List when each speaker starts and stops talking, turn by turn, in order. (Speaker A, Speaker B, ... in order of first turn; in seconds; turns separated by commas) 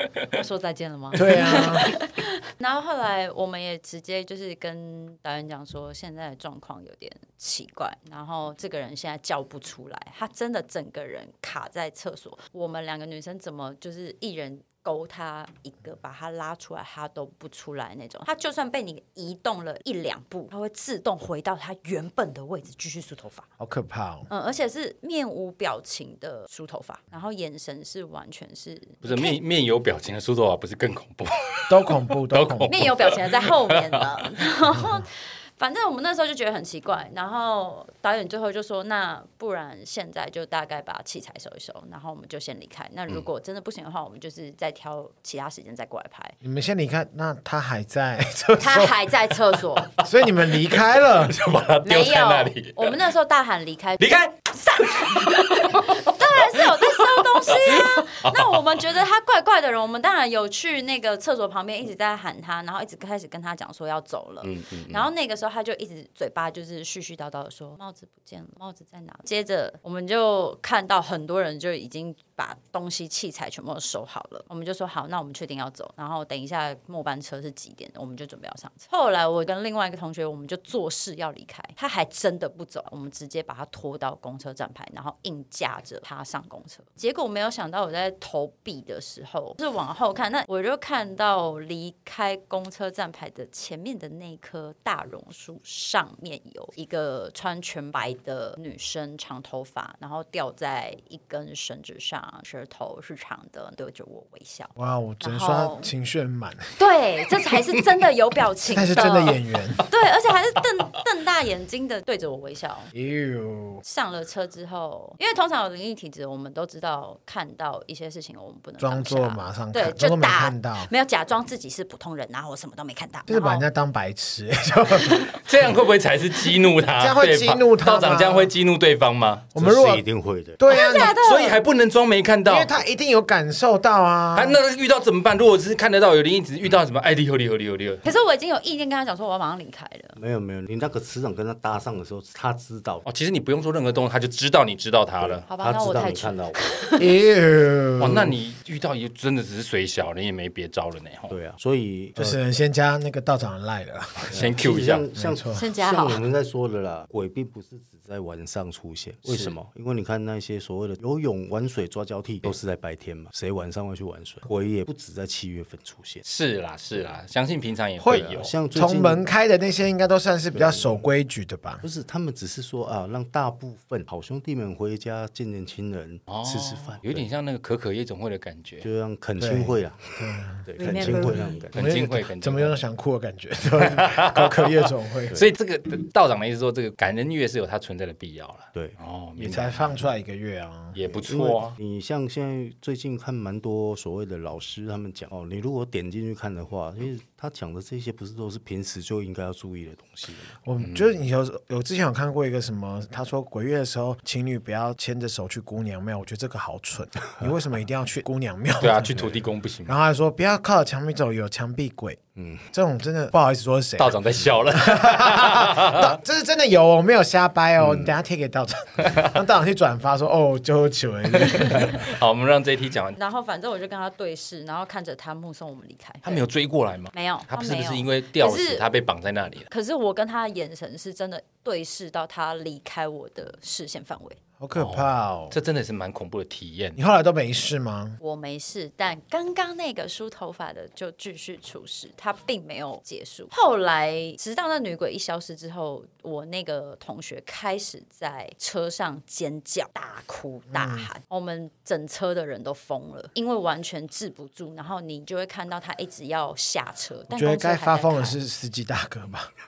Speaker A: 0.3-23.5, Speaker B: 1.1-2.0, Speaker B: 23.6-24.3, Speaker A: 24.3-29.4, Speaker C: 29.0-34.4, Speaker B: 31.7-32.9, Speaker A: 32.6-46.3, Speaker B: 46.4-49.0, Speaker A: 48.6-49.9, Speaker B: 50.0-51.4, Speaker C: 50.0-50.5, Speaker C: 51.0-52.9, Speaker A: 51.8-105.9, Speaker C: 54.0-58.8, Speaker C: 64.4-65.0, Speaker B: 104.8-106.7, Speaker A: 106.8-112.9, Speaker B: 108.7-109.8, Speaker B: 112.9-113.8, Speaker A: 113.8-123.7, Speaker B: 118.8-120.9, Speaker B: 123.3-125.3, Speaker A: 125.0-125.4, Speaker C: 125.4-129.5, Speaker B: 127.0-128.5, Speaker B: 129.5-130.0, Speaker D: 129.6-130.6, Speaker B: 130.6-131.2, Speaker A: 130.7-131.6, Speaker C: 131.1-132.7, Speaker B: 132.4-134.6, Speaker C: 134.3-138.0, Speaker A: 138.0-140.2, Speaker D: 140.2-143.0, Speaker C: 143.0-145.4, Speaker D: 145.2-146.6, Speaker A: 145.5-147.1, Speaker B: 147.0-148.3, Speaker C: 148.0-151.3, Speaker D: 151.3-152.4, Speaker B: 152.2-154.3, Speaker C: 154.3-155.0, Speaker D: 154.3-166.2, Speaker B: 155.2-155.6, Speaker A: 155.5-156.2, Speaker C: 159.2-159.5, Speaker C: 166.2-168.5, Speaker B: 168.0-171.8, Speaker D: 168.1-169.2, Speaker D: 170.5-171.0, Speaker D: 171.8-177.2, Speaker C: 176.3-178.9, Speaker D: 178.8-181.8, Speaker B: 179.4-185.4, Speaker A: 180.8-181.4, Speaker C: 181.7-182.7, Speaker C: 183.8-184.7, Speaker C: 185.3-190.0, Speaker D: 188.7-189.7, Speaker B: 189.4-191.0, Speaker C: 190.9-191.8, Speaker D: 191.1-200.5, Speaker B: 200.6-209.1, Speaker C: 200.8-201.1, Speaker C: 208.8-210.0, Speaker B: 209.8-212.2, Speaker D: 212.3-212.7, Speaker B: 212.7-214.2, Speaker C: 214.0-216.1, Speaker B: 214.7-222.0, Speaker D: 217.8-218.1, Speaker C: 221.3-223.2, Speaker A: 223.2-226.4, Speaker C: 226.2-229.7, Speaker A: 227.1-228.8, Speaker A: 229.7-234.4, Speaker B: 234.6-235.6, Speaker C: 234.7-237.0, Speaker B: 236.9-238.2, Speaker A: 238.2-258.4, Speaker B: 250.7-251.1, Speaker B: 257.3-259.5